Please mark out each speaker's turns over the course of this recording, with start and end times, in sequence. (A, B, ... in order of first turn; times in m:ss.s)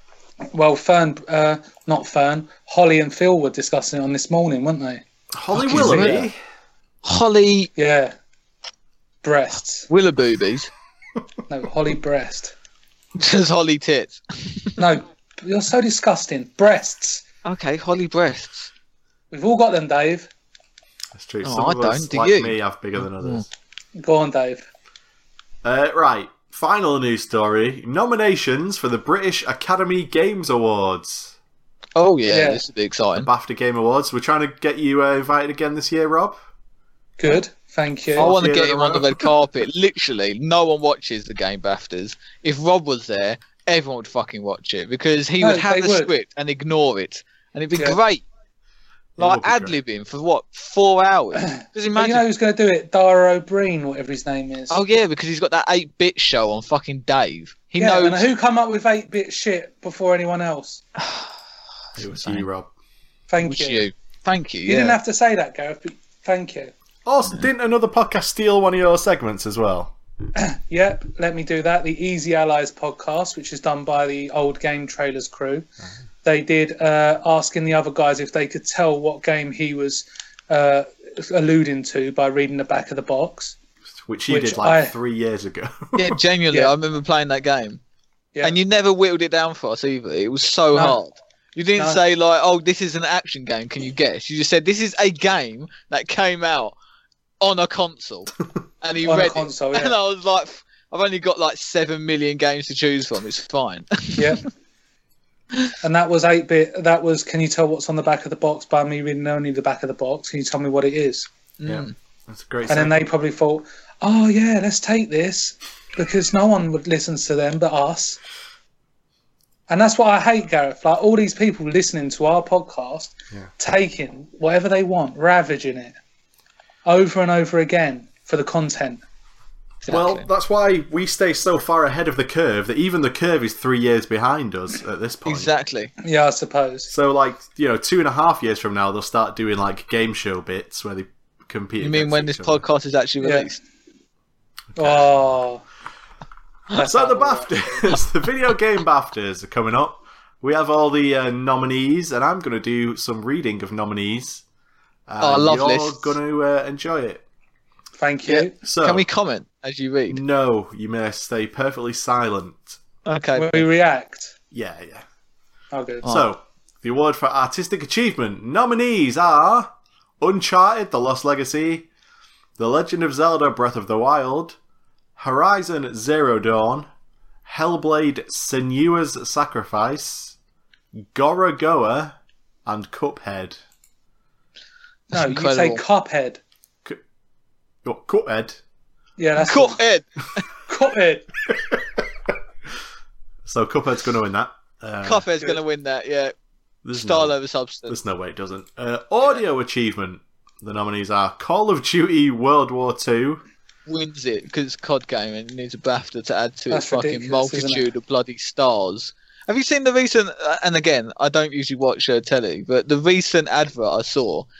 0:00.5-0:05.0 A
0:05.3-0:06.4 B
0:05.5-0:06.3 C
0:05.7-0:06.3 A
0:07.0-0:07.7 C
0:07.8-0:08.1 A
0:09.2-0:09.9 A
0:09.9-0:10.7 C
0:11.5-0:12.6 A
0:13.2-0:14.8 C
0:14.8-0:17.2 A
0:17.4-0:18.7 C
0:19.3-0:20.3 A
0:21.1-0:23.5 B
0:21.4-0:23.4 C
0:24.0-0:24.7 A
0:25.6-0:31.4 B
0:32.0-0:33.3 C
0:32.3-0:32.6 A
0:33.2-0:36.4 B
0:37.2-0:38.3 A
0:38.2-0:48.2 C
0:38.2-0:39.3 B
0:45.4-0:46.1 A
0:49.2-0:49.8 B
0:49.2-0:52.2 C
0:51.4-0:54.8 A
0:54.7-0:58.3 C
0:57.8-1:00.8 A
1:01.0-1:01.3 C
1:02.0-1:02.7 B
1:02.0-1:02.4 C
1:03.3-1:03.9 A
1:03.4-1:05.0 C
1:04.6-1:06.7 A
1:07.0-1:09.9 B
1:10.4-1:15.6 A
1:16.2-1:23.6 A
1:24.0-1:26.2 B
1:24.3-1:25.0 A
1:26.0-1:27.8 C
1:28.4-1:36.8 C
1:30.7-1:31.0 A
1:31.8-1:32.0 A
1:37.4-1:38.3 C
1:38.8-1:44.4 C
1:39.0-1:40.0 A
1:44.2-1:44.4 A
1:45.8-1:51.3 A
1:51.6-1:51.9 C
1:51.6-1:53.1 B
1:52.7-1:58.2 A
1:59.7-2:05.9 A
2:06.9-2:09.0 A
2:09.8-2:10.3 C
2:09.9-2:15.5 B
2:15.3-2:15.9 C
2:16.0-2:16.9 A
2:16.9-2:22.6 B
2:21.8-2:23.6 C
2:23.2-2:23.5 A
2:24.7-2:25.3 B
2:24.8-2:25.6 A
2:26.7-2:27.9 A
2:26.8-2:34.4 B
2:35.1-2:37.2 B
2:35.2-2:36.1 C
2:38.0-2:38.6 A
2:38.3-2:40.2 C
2:38.6-2:39.0 B
2:40.1-2:42.8 B
2:43.0-2:43.6 C
2:43.3-2:44.3 A
2:44.5-2:45.0 B
2:45.7-2:46.0 A
2:46.0-2:46.3 C
2:46.0-2:51.9 B
2:52.6-2:54.6 B
2:55.2-2:56.9 B
2:57.4-3:00.4 B
3:00.9-3:03.6 B
3:05.1-3:05.8 C
3:05.1-3:06.4 A
3:07.8-3:08.6 B
3:09.2-3:09.8 A
3:09.4-3:10.4 C
3:10.7-3:11.3 A
3:11.5-3:11.8 B
3:13.4-3:15.3 B
3:15.0-3:16.3 C
3:16.8-3:17.3 B
3:17.0-3:18.0 C
3:17.9-3:23.4 B
3:23.9-3:34.5 C
3:26.7-3:27.9 A